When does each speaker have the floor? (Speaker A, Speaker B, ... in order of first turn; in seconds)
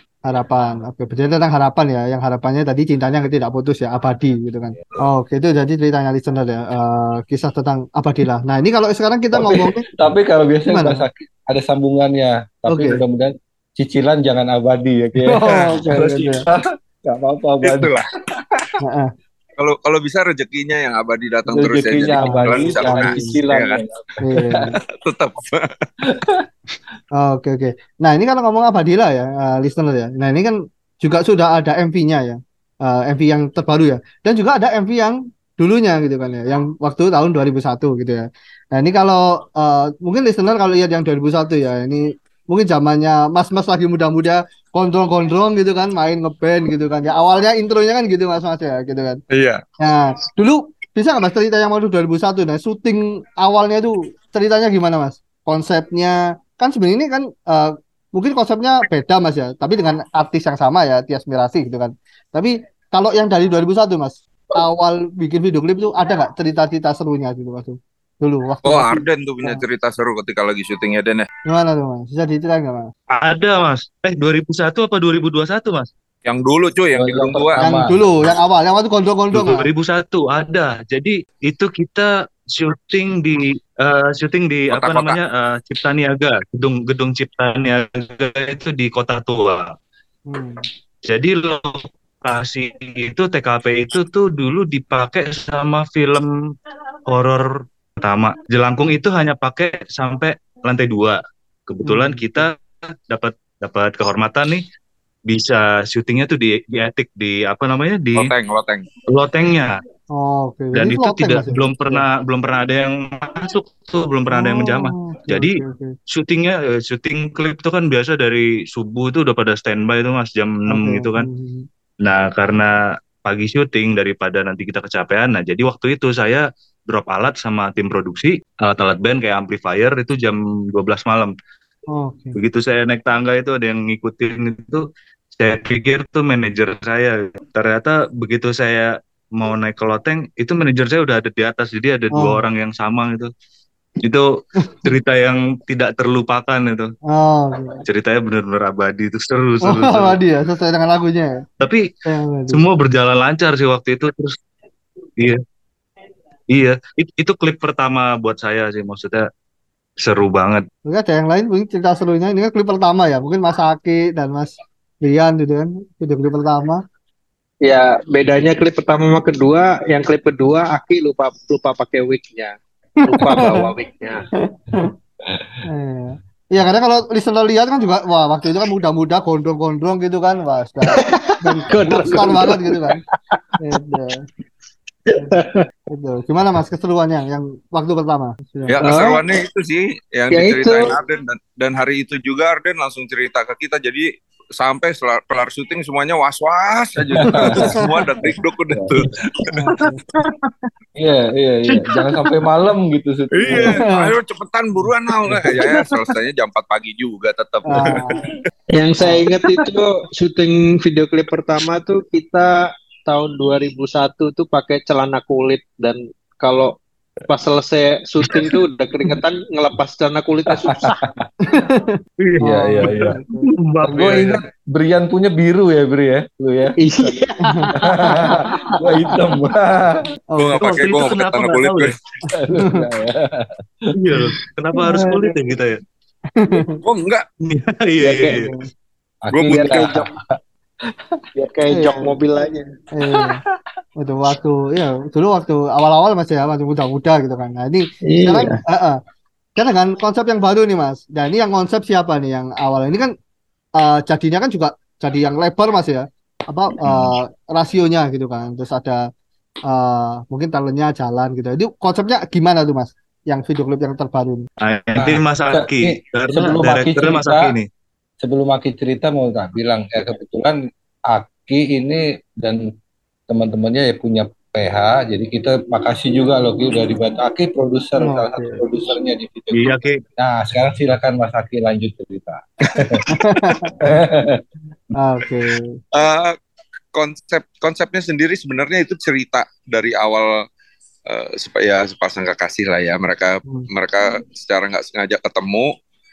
Speaker A: 0.2-9.8, 10.7-11.1, 12.7-13.0, 15.2-16.4, 18.8-19.1, 22.1-23.3, 24.2-24.8, 27.1-49.2, 49.8-69.6, 71.5-72.9, 77.6-79.7, 90.3-90.7, 101.8-102.5, 110.1-112.0, 114.3-115.9, 120.7-121.7, 131.9-132.4, 142.1-142.4, 144.6-144.9, 147.1-147.8, 149.6-151.4, 152.0-152.6, 160.9-166.8, 173.0-173.7, 174.4-174.9, 175.7-183.0, 183.6-184.2, 185.9-188.8, 197.3-198.0, 199.5-200.0, 203.5-204.1, 207.7-208.2, 221.4-223.5, 227.4-228.3, 230.3-230.8, 232.3-232.8, 234.8-235.3, 236.4-236.8, 238.3-238.6, 241.7-242.2, 242.9-243.4, 244.0-249.0, 249.6-253.1, 253.8-259.1, 259.7-264.5, 278.0-278.6, 283.1-283.7, 285.0-285.7
Speaker B: 9.3-18.0, 21.5-24.6, 26.1-26.4, 76.9-78.0, 175.2-175.5, 197.0-199.1, 201.0-203.8, 220.6-221.2, 222.6-223.2, 223.8-227.2, 227.8-230.0, 232.3-234.2, 239.2-240.2, 264.9-267.6, 268.2-272.7, 273.3-283.0, 283.8-284.4
Speaker C: 17.6-18.0, 19.6-23.8, 25.0-25.9, 49.3-49.6, 68.6-71.3, 76.2-77.6, 84.7-85.2, 108.1-108.9, 188.7-194.1, 194.6-199.1, 203.3-208.4, 230.4-231.9, 236.8-237.2, 239.3-239.9, 285.9-286.3, 286.9-290.3, 291.1-295.7
Speaker D: 73.1-75.9, 79.3-89.7, 91.1-96.3, 97.1-104.6, 105.3-108.3, 109.1-109.8, 110.7-115.6, 116.1-121.3, 122.0-131.3, 132.3-134.8, 135.4-143.3, 144.0-144.3, 144.8-146.9, 147.8-150.2, 152.5-154.3, 156.5-159.3, 160.0-160.7, 222.2-224.4, 230.6-231.9, 233.9-235.8, 237.4-238.5, 264.6-267.7, 279.5-280.0
Speaker E: 167.6-174.2, 180.9-182.9, 185.1-185.7, 188.8-189.2, 190.3-190.9, 208.7-216.7, 217.3-221.0, 226.8-228.4, 238.0-238.5, 239.4-240.1, 241.3-242.7, 248.0-248.6